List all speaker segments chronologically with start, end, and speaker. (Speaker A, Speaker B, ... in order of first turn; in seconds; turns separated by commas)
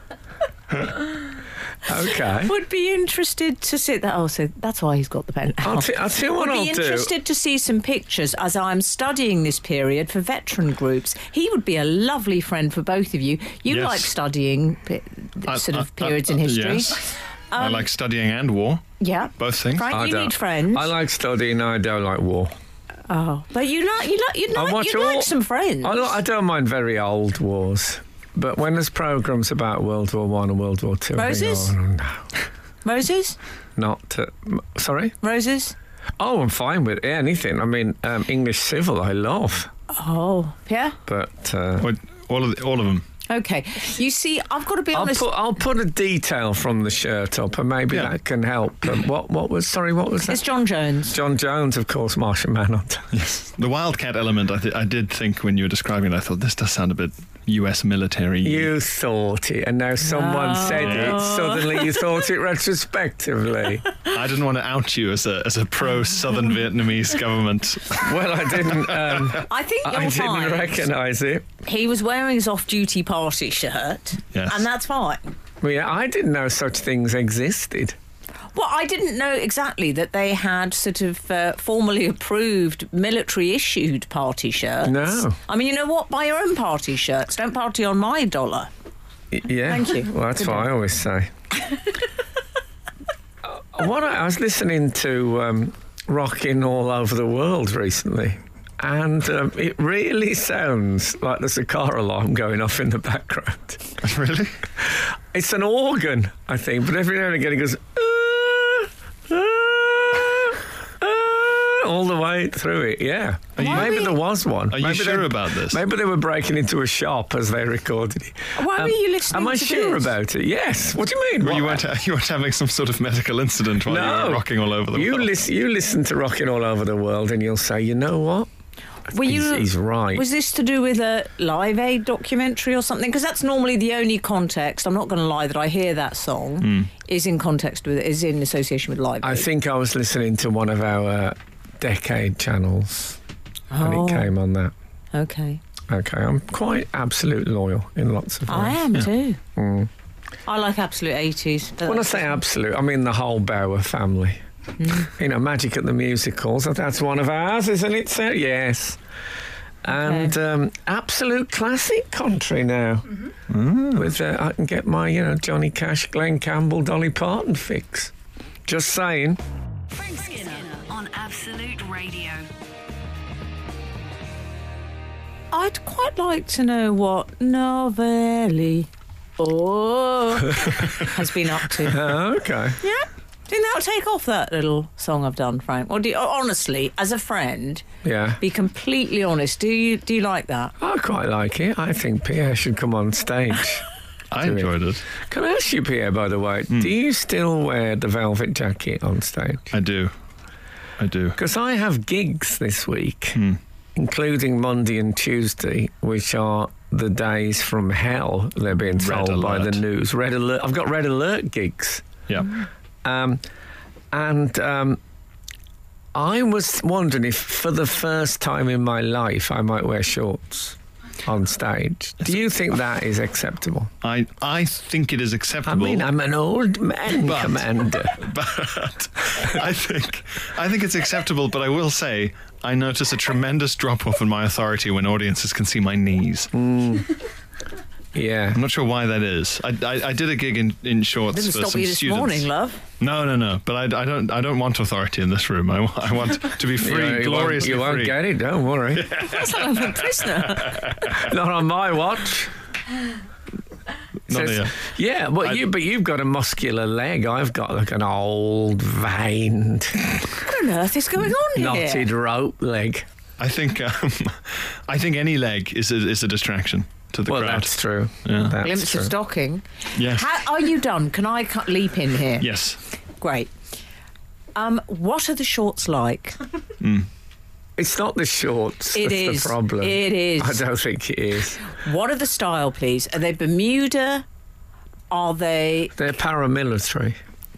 Speaker A: 1.9-2.5, Speaker B: 2.2-17.9, Speaker A: 5.6-7.1, Speaker C: 13.7-14.1, Speaker C: 15.5-18.8, Speaker B: 19.0-20.9, Speaker C: 19.4-19.9, Speaker A: 19.9-22.5, Speaker B: 23.1-26.1, Speaker A: 24.5-32.3, Speaker B: 31.1-31.7, Speaker B: 32.8-33.4, Speaker A: 33.8-35.1, Speaker B: 35.2-35.7, Speaker A: 36.2-39.7, Speaker B: 39.9-41.0, Speaker A: 41.1-41.9, Speaker C: 41.8-43.0, Speaker B: 43.3-45.3, Speaker A: 44.9-50.4, Speaker B: 50.3-51.2, Speaker A: 51.1-53.1, Speaker C: 53.1-58.7, Speaker A: 58.4-63.8, Speaker B: 60.0-62.1, Speaker C: 60.7-61.2, Speaker C: 64.1-68.1, Speaker A: 68.0-71.5, Speaker C: 68.7-69.2, Speaker B: 69.4-70.8, Speaker B: 71.6-75.3, Speaker C: 74.3-74.6, Speaker A: 75.6-78.0, Speaker B: 78.5-88.7, Speaker A: 84.8-85.4, Speaker A: 89.3-91.3, Speaker B: 89.7-90.7, Speaker A: 93.4-104.0, Speaker C: 104.0-104.6, Speaker A: 104.8-121.8, Speaker C: 113.5-114.0, Speaker B: 113.6-114.2, Speaker C: 114.7-115.8, Speaker B: 118.5-120.1, Speaker C: 121.4-125.3, Speaker A: 123.9-128.5, Speaker B: 129.1-139.5, Speaker A: 129.1-130.2, Speaker C: 136.6-136.9, Speaker A: 139.2-143.2, Speaker B: 143.7-144.3, Speaker A: 143.8-144.7, Speaker B: 145.1-145.6, Speaker A: 145.9-148.8, Speaker B: 148.5-149.4, Speaker A: 149.6-149.9, Speaker B: 150.4-152.4, Speaker A: 151.8-154.4, Speaker B: 154.8-155.1, Speaker A: 154.9-159.0, Speaker A: 159.8-163.1, Speaker B: 159.9-160.3, Speaker C: 163.5-164.0, Speaker A: 163.9-168.1, Speaker A: 168.7-169.4, Speaker D: 169.9-172.5, Speaker B: 175.5-178.9, Speaker B: 179.4-182.1, Speaker A: 181.8-182.8, Speaker B: 182.8-187.8, Speaker A: 188.0-188.4, Speaker B: 188.4-190.7, Speaker A: 190.8-193.8, Speaker C: 194.3-195.0, Speaker A: 194.4-199.7, Speaker C: 199.7-200.1, Speaker C: 201.0-201.4, Speaker A: 201.3-203.4, Speaker A: 203.9-212.1, Speaker C: 208.9-209.8, Speaker A: 213.0-213.4, Speaker A: 214.1-215.0, Speaker A: 216.1-223.9, Speaker C: 224.0-226.1, Speaker A: 225.7-228.2, Speaker C: 227.2-236.5, Speaker A: 236.5-237.2, Speaker A: 238.1-238.6, Speaker C: 238.5-242.5, Speaker B: 241.3-242.8, Speaker C: 243.0-248.2, Speaker A: 246.8-249.1, Speaker C: 248.9-251.2, Speaker B: 249.2-251.0, Speaker A: 251.1-252.5, Speaker C: 254.3-254.8, Speaker A: 254.3-260.4, Speaker B: 260.4-262.1, Speaker A: 261.5-263.1, Speaker C: 263.4-267.7, Speaker A: 267.3-269.1, Speaker C: 268.2-268.6, Speaker B: 268.6-272.5, Speaker C: 269.9-270.3, Speaker C: 272.4-272.8, Speaker B: 273.2-273.5, Speaker B: 274.5-276.4, Speaker C: 276.8-277.1, Speaker A: 277.8-281.6, Speaker B: 278.9-280.6, Speaker B: 281.7-284.2, Speaker B: 285.1-285.9, Speaker A: 285.9-287.2